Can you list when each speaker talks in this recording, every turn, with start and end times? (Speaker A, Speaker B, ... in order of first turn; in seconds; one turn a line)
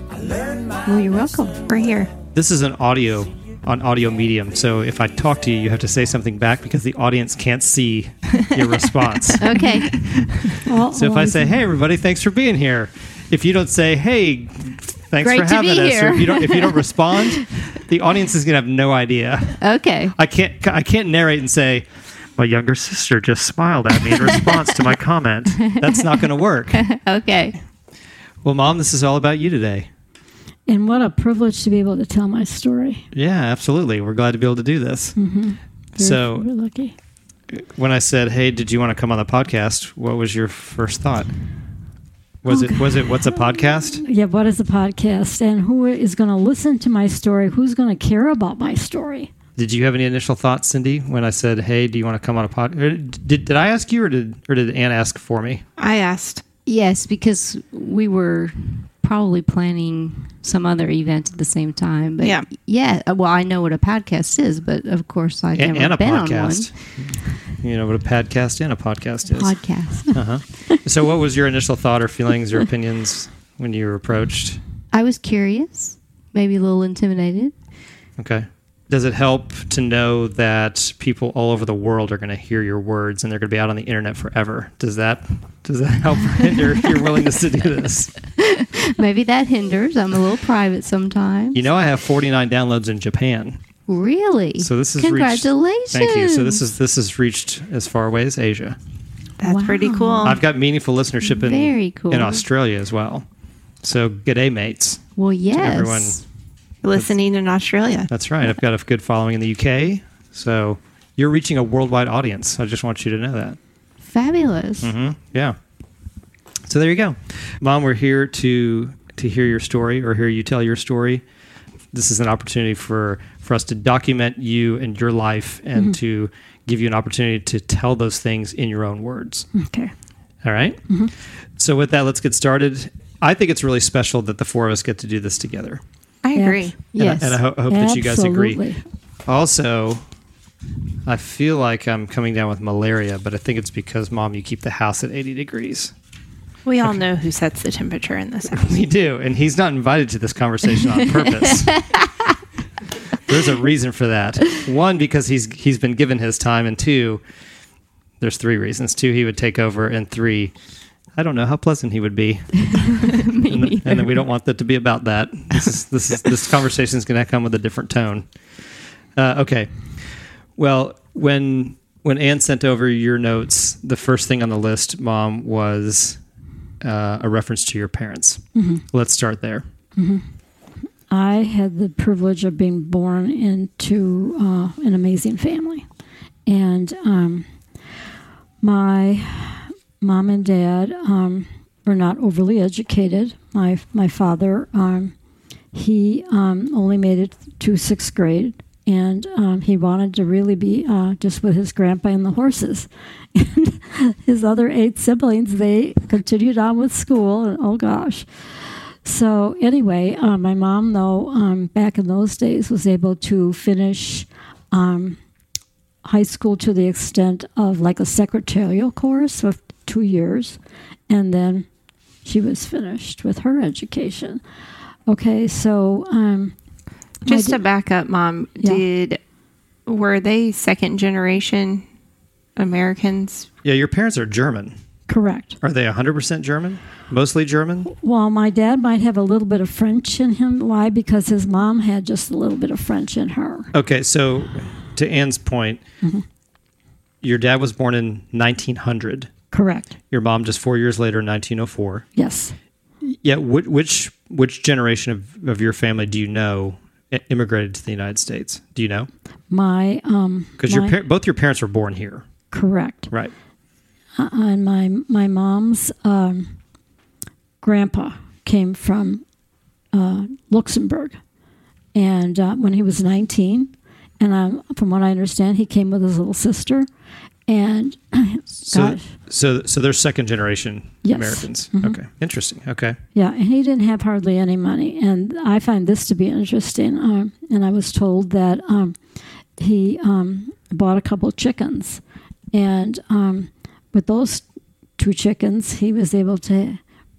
Speaker A: 0.9-1.6
Speaker B: 1.7-2.1
Speaker C: 2.3-19.6
Speaker A: 9.4-10.0
Speaker D: 10.6-11.6
Speaker A: 15.2-17.4
Speaker A: 19.6-20.1
Speaker C: 20.1-26.9
Speaker A: 24.1-24.5
Speaker A: 25.6-26.1
Speaker A: 26.7-27.6
Speaker C: 28.4-29.9
Speaker D: 30.7-33.0
Speaker C: 33.1-35.2
Speaker D: 35.2-36.9
Speaker C: 36.0-36.5
Speaker C: 37.5-41.3
Speaker C: 42.4-44.0
Speaker D: 42.5-49.3
Speaker C: 49.6-55.6
Speaker B: 55.8-56.4
Speaker A: 56.7-66.7
Speaker B: 62.2-62.5
Speaker C: 65.5-74.6
Speaker A: 69.3-70.2
Speaker A: 74.9-77.5
Speaker C: 78.2-88.1
Speaker A: 88.4-91.6
Speaker C: 91.5-93.6
Speaker A: 93.9-96.6
Speaker C: 94.6-98.8
Speaker B: 99.4-100.4
Speaker A: 99.4-100.4
Speaker C: 100.2-103.3
Speaker A: 101.3-102.4
Speaker C: 103.8-106.2
Speaker A: 105.2-106.2
Speaker B: 106.8-108.1
Speaker C: 108.1-113.6
Speaker A: 114.0-114.9
Speaker C: 114.8-115.6
Speaker C: 116.7-121.2
Speaker C: 121.9-129.5
Speaker D: 129.5-129.9
Speaker C: 130.4-130.8
Speaker C: 131.6-135.8
Speaker B: 136.2-136.8
Speaker D: 136.3-136.8
Speaker A: 136.9-137.4
Speaker C: 137.0-138.6
Speaker D: 137.7-138.8
Speaker C: 139.3-140.0
Speaker C: 141.1-145.9
Speaker B: 146.7-148.8
Speaker C: 148.5-151.8
Speaker A: 151.4-152.3
Speaker C: 153.3-157.2
Speaker C: 158.2-160.5
Speaker C: 161.2-168.3
Speaker A: 162.6-164.2
Speaker C: 169.2-169.7
Speaker C: 170.6-176.2
Speaker C: 176.8-179.7
Speaker D: 178.6-178.8
Speaker D: 180.0-180.2
Speaker D: 181.1-185.8
Speaker D: 186.5-187.4
Speaker D: 188.6-195.1
Speaker D: 195.7-208.3
Speaker D: 209.0-215.2
Speaker D: 216.0-221.7
Speaker D: 222.2-224.4
Speaker D: 225.1-226.6
Speaker B: 227.3-229.2
Speaker D: 227.3-227.6
Speaker B: 229.9-231.8
Speaker B: 232.6-233.5
Speaker C: 233.6-234.8
Speaker D: 235.1-235.6
Speaker C: 235.6-237.9
Speaker D: 237.9-243.7
Speaker C: 243.7-245.8
Speaker C: 247.2-249.3
Speaker D: 249.5-249.9
Speaker C: 250.1-252.1
Speaker D: 252.2-252.5
Speaker C: 253.0-259.1
Speaker D: 259.5-261.0
Speaker C: 260.6-262.2
Speaker D: 262.5-263.1
Speaker D: 264.2-266.5
Speaker D: 267.6-269.2
Speaker D: 269.9-271.2
Speaker D: 271.9-276.9
Speaker D: 277.5-279.1
Speaker C: 278.7-283.0
Speaker D: 281.0-282.0
Speaker D: 283.1-289.0
Speaker D: 289.6-292.0
Speaker D: 292.5-294.4
Speaker D: 295.0-296.8